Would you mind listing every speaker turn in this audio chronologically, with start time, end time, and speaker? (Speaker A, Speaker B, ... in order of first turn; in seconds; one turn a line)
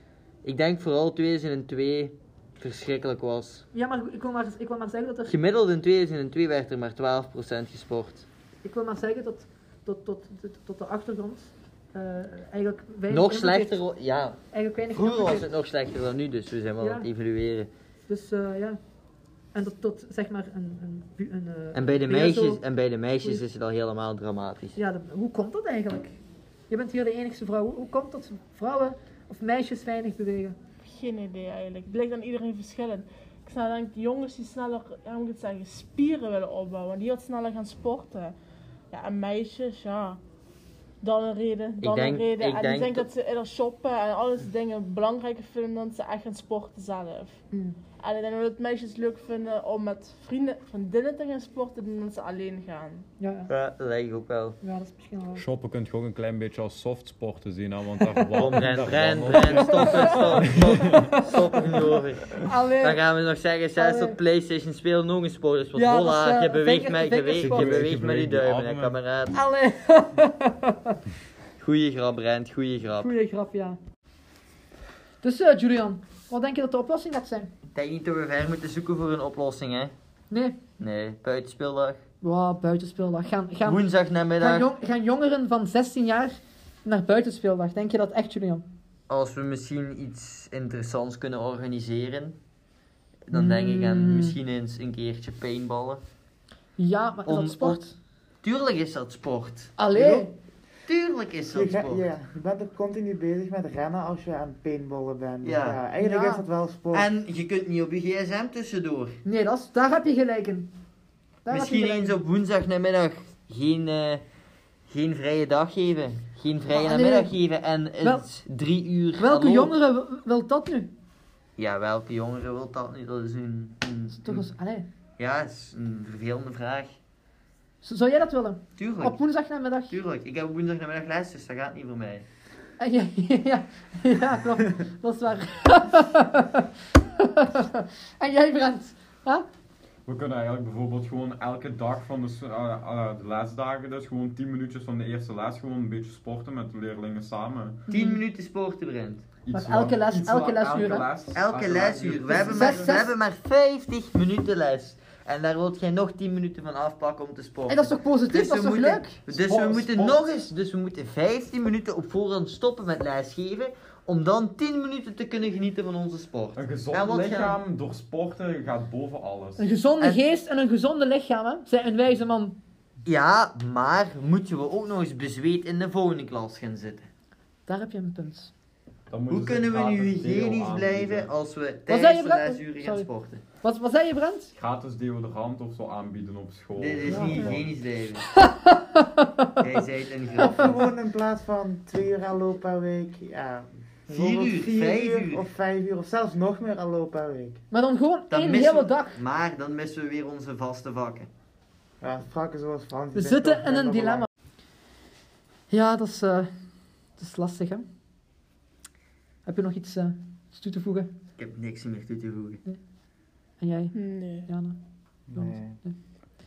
Speaker A: 0.4-3.6
Speaker B: 3.7-5.3
Speaker A: 5.2-8.2
Speaker B: 8.6-13.8
Speaker A: 13.1-14.4
Speaker B: 14.5-15.5
Speaker A: 14.9-17.7
Speaker B: 16.8-17.1
Speaker B: 18.1-18.8
Speaker B: 19.5-22.6
Speaker A: 21.7-24.8
Speaker B: 24.8-26.2
Speaker B: 26.7-30.6
Speaker C: 30.9-38.3
Speaker C: 38.9-40.2
Speaker C: 41.0-47.4
Speaker A: 41.8-43.1
Speaker B: 47.5-47.8
Speaker C: 48.0-53.0
Speaker B: 53.2-53.5
Speaker A: 53.5-54.5
Speaker B: 54.6-55.4
Speaker D: 55.4-61.2
Speaker A: 58.3-69.4
Speaker B: 59.5-61.8
Speaker B: 62.4-63.0
Speaker B: 63.7-64.2
Speaker B: 65.7-67.8
Speaker D: 67.4-69.0
Speaker B: 69.3-71.0
Speaker A: 71.6-73.1
Speaker B: 73.0-73.8
Speaker B: 75.2-77.5
Speaker A: 77.7-79.9
Speaker B: 80.3-80.6
Speaker A: 80.8-82.0
Speaker B: 82.2-83.8
Speaker A: 83.6-84.7
Speaker B: 84.4-88.6
Speaker A: 89.1-92.4
Speaker A: 93.3-96.0
Speaker B: 93.3-94.4
Speaker B: 96.8-98.0
Speaker A: 97.2-97.8
Speaker A: 98.4-100.3
Speaker B: 99.8-100.3
Speaker A: 100.8-102.1
Speaker E: 101.5-107.1
Speaker A: 105.4-105.8
Speaker B: 106.0-106.5
Speaker A: 106.9-109.2
Speaker B: 109.2-110.7
Speaker B: 111.5-112.2
Speaker A: 111.5-114.2
Speaker A: 114.9-119.7
Speaker B: 116.7-117.3
Speaker B: 118.0-118.3
Speaker B: 119.2-120.9
Speaker A: 121.6-124.5
Speaker B: 124.1-124.9
Speaker A: 125.2-126.9
Speaker B: 127.8-130.0
Speaker A: 128.8-129.2
Speaker A: 129.9-132.2
Speaker B: 132.8-139.4
Speaker D: 140.0-147.8
Speaker A: 147.9-149.2
Speaker B: 147.9-148.2
Speaker D: 149.4-153.0
Speaker B: 149.5-151.1
Speaker A: 151.3-167.6
Speaker B: 152.3-153.1
Speaker B: 157.7-159.2
Speaker D: 159.3-160.3
Speaker D: 166.6-169.6
Speaker B: 169.6-172.6
Speaker A: 173.0-177.1
Speaker B: 177.7-178.5
Speaker D: 179.1-181.3
Speaker A: 179.3-183.4
Speaker B: 181.9-183.1
Speaker B: 183.6-184.5
Speaker D: 184.5-187.7
Speaker A: 186.8-188.2
Speaker B: 187.0-187.5
Speaker B: 188.3-189.8
Speaker A: 189.6-190.8
Speaker E: 190.4-197.6
Speaker B: 190.4-190.7
Speaker A: 194.1-195.5
Speaker B: 197.7-199.2
Speaker A: 198.3-201.3
Speaker E: 202.0-204.3
Speaker B: 203.1-204.3
Speaker B: 205.7-206.5
Speaker B: 207.2-207.8
Speaker B: 209.4-211.1
Speaker A: 211.4-212.6
Speaker B: 213.6-214.8
Speaker C: 213.9-214.5
Speaker E: 215.3-215.8
Speaker B: 215.3-215.9